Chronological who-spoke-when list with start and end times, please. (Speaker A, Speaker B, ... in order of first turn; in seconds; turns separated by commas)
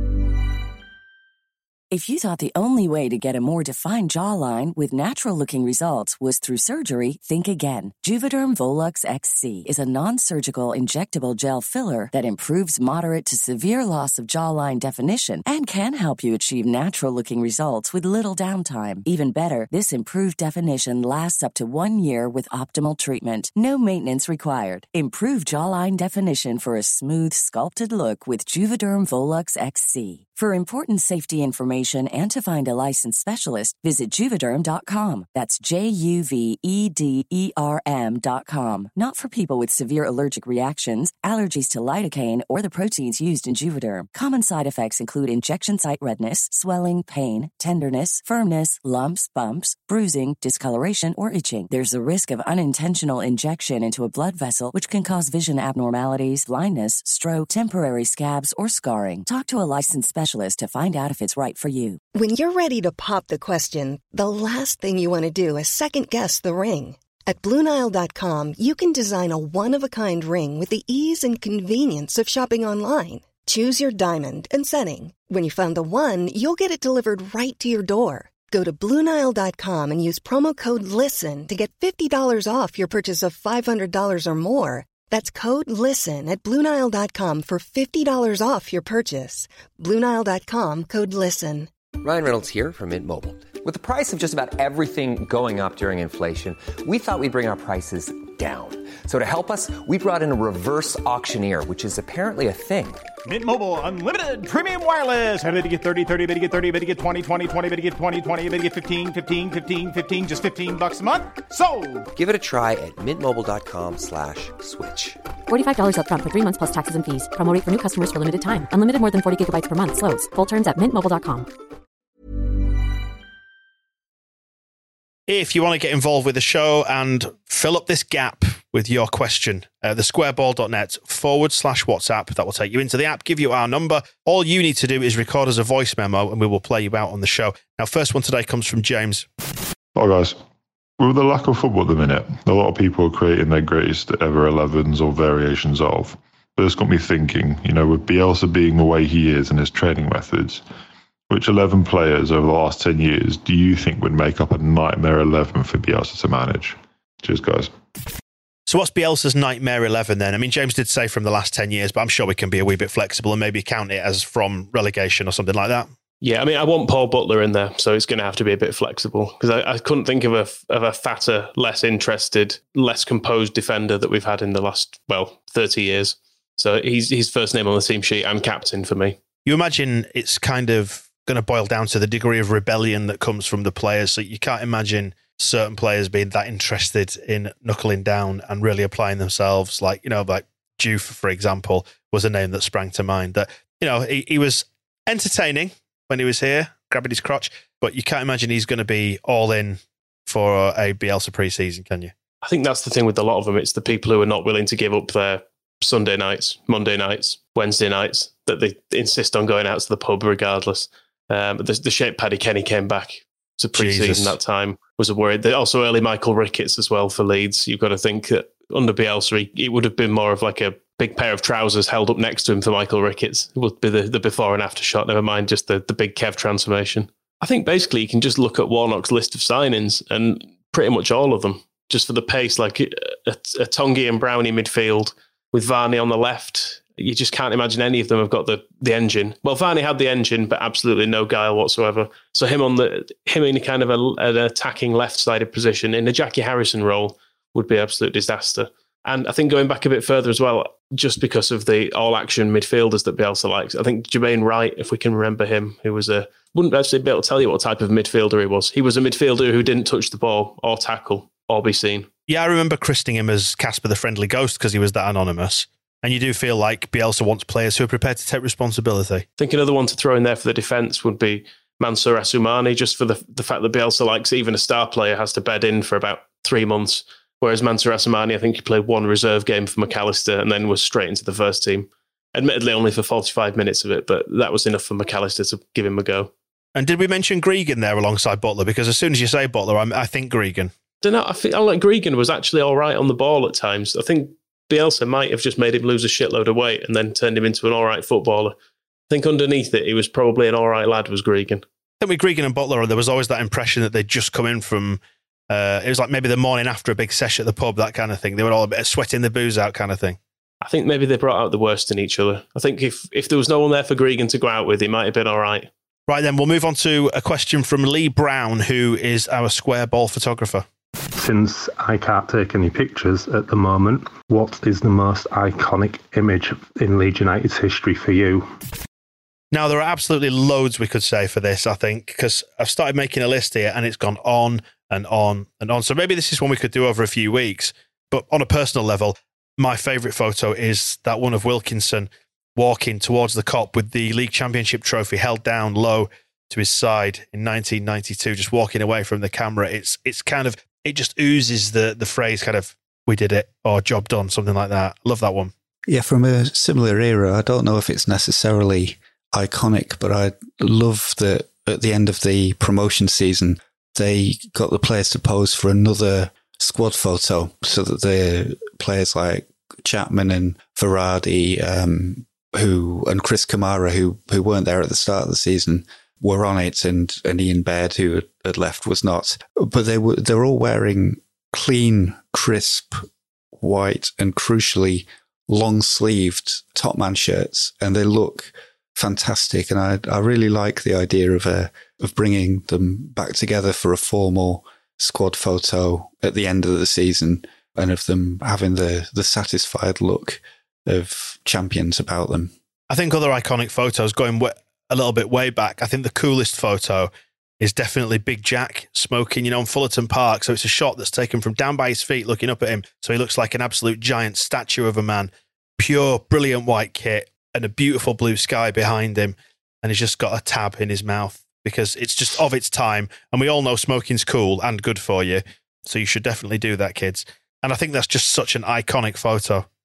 Speaker A: 1.9-62.0, Speaker B: 62.1-91.7, Speaker C: 92.0-103.1, Speaker D: 103.2-112.1, Speaker C: 112.2-115.2, Speaker E: 115.5-121.5, Speaker F: 125.3-139.3, Speaker G: 139.9-140.4, Speaker G: 141.0-150.6, Speaker G: 151.3-157.7, Speaker F: 158.7-165.9, Speaker H: 166.2-179.2, Speaker F: 179.4-202.1, Speaker H: 202.4-262.1, Speaker F: 213.8-214.3, Speaker F: 262.3-269.2, Speaker H: 269.4-286.3, Speaker F: 286.8-290.7, Speaker H: 291.0-298.6, Speaker H: 299.1-301.6, Speaker F: 302.0-310.2, Speaker H: 310.6-315.7, Speaker F: 316.1-320.7, Speaker I: 321.2-328.5, Speaker F: 329.5-355.5, Speaker J: 355.9-383.1, Speaker J: 383.6-402.5, Speaker F: 402.9-407.1, Speaker F: 407.6-429.6